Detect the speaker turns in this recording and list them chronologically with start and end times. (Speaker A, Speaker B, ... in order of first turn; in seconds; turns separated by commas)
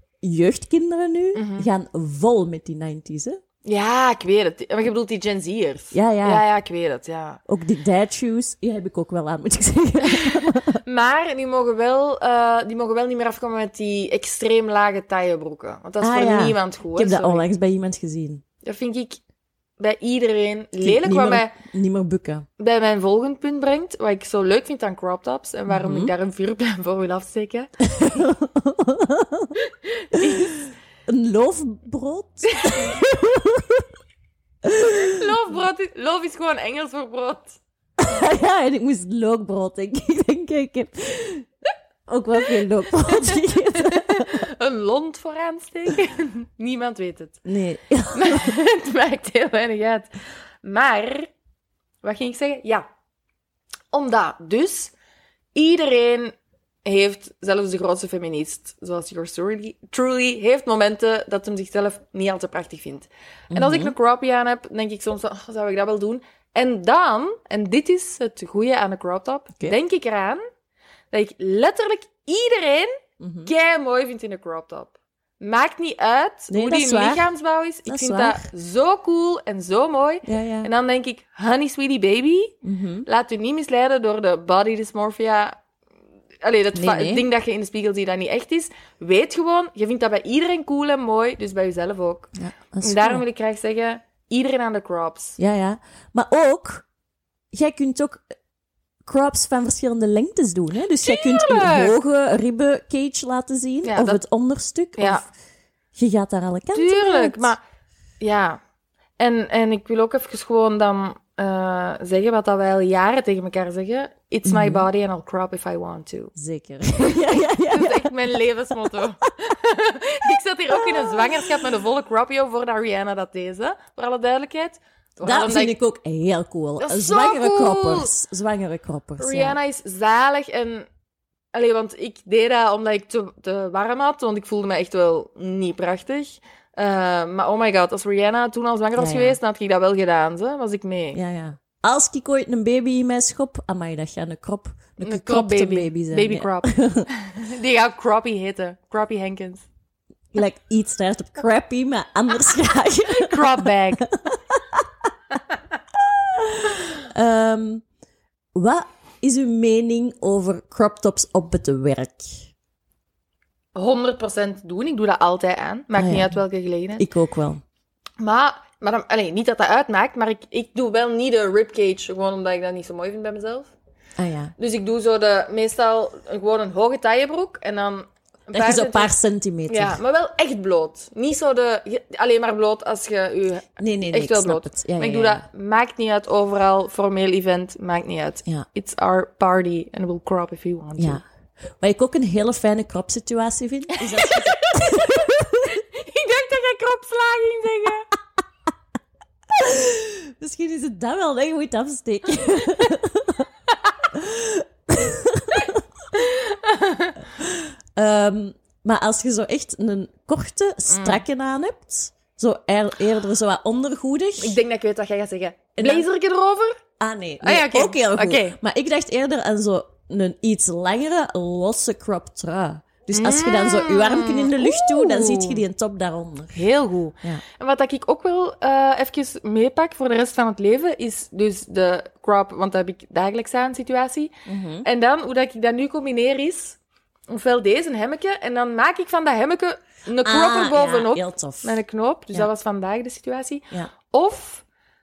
Speaker A: 0.2-3.4, Speaker B: 1.4-1.7, Speaker B: 3.6-7.4, Speaker A: 5.9-6.5, Speaker A: 7.5-10.8, Speaker B: 10.0-17.4, Speaker A: 16.0-18.4, Speaker B: 18.6-19.2, Speaker B: 19.8-21.6, Speaker A: 20.8-22.5, Speaker B: 22.6-27.7, Speaker A: 25.7-26.1, Speaker A: 27.8-29.6, Speaker B: 29.6-30.6, Speaker A: 30.1-33.9, Speaker B: 32.5-33.1, Speaker A: 34.6-35.2, Speaker B: 34.8-37.6, Speaker A: 38.0-41.5, Speaker A: 42.1-44.5, Speaker B: 43.0-47.4, Speaker A: 47.5-48.5, Speaker B: 48.1-50.1, Speaker B: 50.6-51.3, Speaker B: 52.0-52.9, Speaker B: 53.9-54.9, Speaker B: 55.5-56.3, Speaker B: 56.9-70.4, Speaker A: 63.5-63.9, Speaker B: 71.1-85.6, Speaker A: 73.2-73.5, Speaker A: 76.5-77.3, Speaker A: 77.9-78.5, Speaker A: 80.2-80.7, Speaker A: 82.6-83.1, Speaker B: 86.4-95.4, Speaker A: 86.7-87.3, Speaker A: 92.4-93.2, Speaker A: 95.4-96.9, Speaker A: 97.5-98.2, Speaker A: 99.0-105.3, Speaker B: 101.0-102.0, Speaker B: 103.8-104.2, Speaker B: 105.0-105.2, Speaker A: 106.0-107.5, Speaker B: 106.7-107.6, Speaker B: 108.2-108.6, Speaker B: 109.2-116.3, Speaker A: 114.5-114.9, Speaker A: 116.3-119.3, Speaker B: 117.0-125.7, Speaker A: 120.7-121.7, Speaker A: 125.2-129.6, Speaker B: 126.8-128.1, Speaker B: 129.2-130.9, Speaker B: 131.5-141.2, Speaker A: 139.0-139.4, Speaker A: 141.1-147.1, Speaker B: 145.0-149.7, Speaker A: 150.3-155.1, Speaker B: 153.1-154.1, Speaker A: 155.9-157.8, Speaker A: 158.5-162.5, Speaker B: 163.8-167.1, Speaker A: 166.0-166.4, Speaker A: 167.0-167.6, Speaker B: 168.2-173.7, Speaker A: 174.2-174.5, Speaker B: 174.6-179.1, Speaker A: 178.5-180.0, Speaker B: 179.7-191.2, Speaker A: 183.8-185.4, Speaker A: 191.8-195.8, Speaker B: 194.0-198.1, Speaker A: 199.5-203.5, Speaker A: 204.1-205.8, Speaker B: 206.1-207.2, Speaker A: 207.4-214.6, Speaker B: 210.9-211.2, Speaker B: 214.4-216.8, Speaker A: 215.8-216.1, Speaker A: 217.0-226.6, Speaker B: 217.4-218.6, Speaker B: 223.1-225.6, Speaker B: 226.5-234.3, Speaker A: 234.5-234.9, Speaker B: 234.8-244.6, Speaker A: 240.2-241.8